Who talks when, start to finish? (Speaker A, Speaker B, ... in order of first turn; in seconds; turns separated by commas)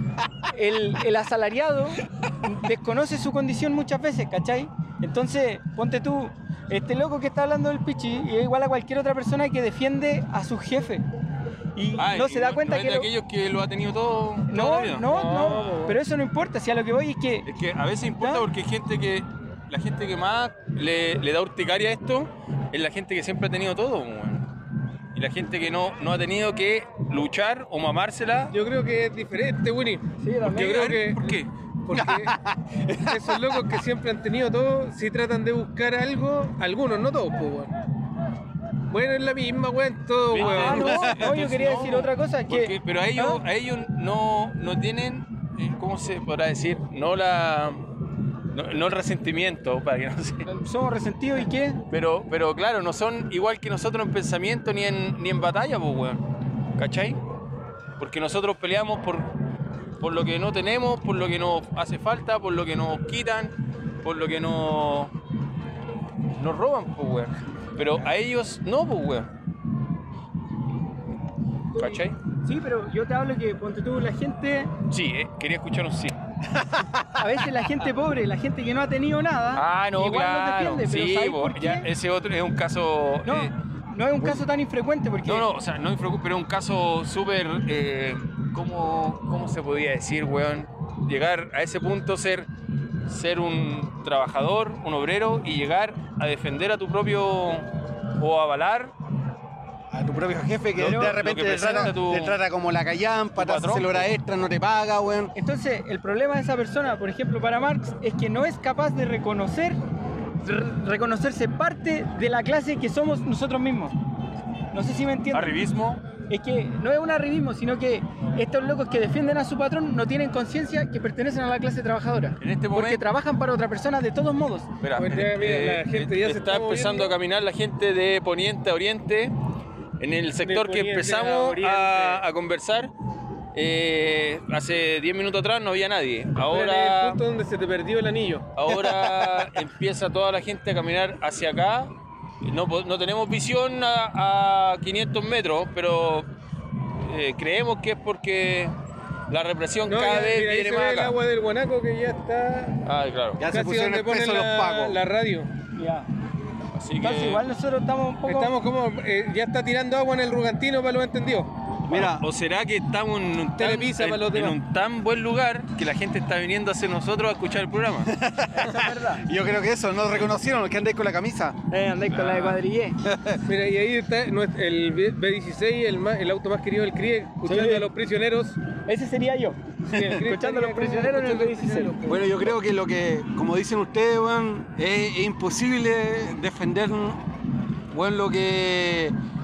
Speaker A: 0.4-11.0, Speaker A: 11.7-13.1, Speaker B: 12.0-15.1, Speaker A: 14.5-17.5, Speaker C: 15.0-16.0, Speaker B: 17.4-24.5, Speaker A: 18.2-18.5, Speaker B: 25.1-28.5, Speaker C: 28.5-32.3, Speaker A: 30.2-30.9, Speaker B: 30.4-31.5, Speaker D: 31.9-33.8, Speaker C: 33.0-37.7, Speaker C: 38.9-41.0, Speaker B: 40.3-47.9, Speaker A: 40.4-43.4, Speaker D: 40.8-41.2, Speaker B: 48.5-50.5, Speaker A: 50.5-51.8, Speaker B: 51.9-56.2, Speaker B: 56.8-57.2, Speaker B: 58.0-59.3, Speaker B: 60.0-65.1, Speaker B: 66.3-69.3, Speaker A: 71.7-74.7, Speaker B: 71.8-72.2, Speaker B: 74.9-76.2, Speaker D: 76.5-77.0, Speaker A: 77.2-81.9, Speaker B: 79.5-83.5, Speaker A: 83.2-85.5, Speaker B: 85.2-92.5, Speaker B: 93.0-98.9, Speaker D: 99.9-105.3, Speaker B: 100.7-102.4, Speaker A: 100.8-101.1, Speaker B: 103.4-104.1, Speaker A: 105.3-109.8, Speaker A: 110.4-114.0, Speaker A: 114.7-115.6, Speaker B: 115.3-116.0, Speaker A: 116.3-124.7, Speaker B: 122.4-123.0, Speaker B: 124.8-129.3, Speaker C: 125.0-127.2, Speaker B: 130.0-132.9, Speaker C: 130.4-132.2, Speaker B: 133.5-137.2, Speaker C: 136.5-138.5, Speaker B: 138.5-141.9, Speaker D: 138.9-139.3, Speaker B: 142.4-146.3, Speaker B: 147.0-148.7, Speaker B: 149.3-151.2, Speaker C: 149.9-152.8, Speaker B: 152.8-153.4, Speaker D: 153.4-155.0, Speaker C: 153.5-155.5, Speaker A: 155.7-156.1, Speaker B: 156.7-157.4, Speaker A: 157.0-158.5, Speaker C: 158.2-161.5, Speaker D: 161.9-162.2, Speaker B: 161.9-168.2, Speaker C: 163.6-164.6, Speaker D: 168.1-171.6, Speaker A: 168.5-169.2, Speaker A: 171.7-173.0, Speaker B: 172.1-172.6, Speaker D: 173.0-173.4, Speaker C: 173.4-178.6, Speaker A: 177.4-177.9, Speaker A: 178.8-181.9, Speaker C: 179.8-182.5, Speaker D: 182.1-187.2, Speaker D: 187.9-189.1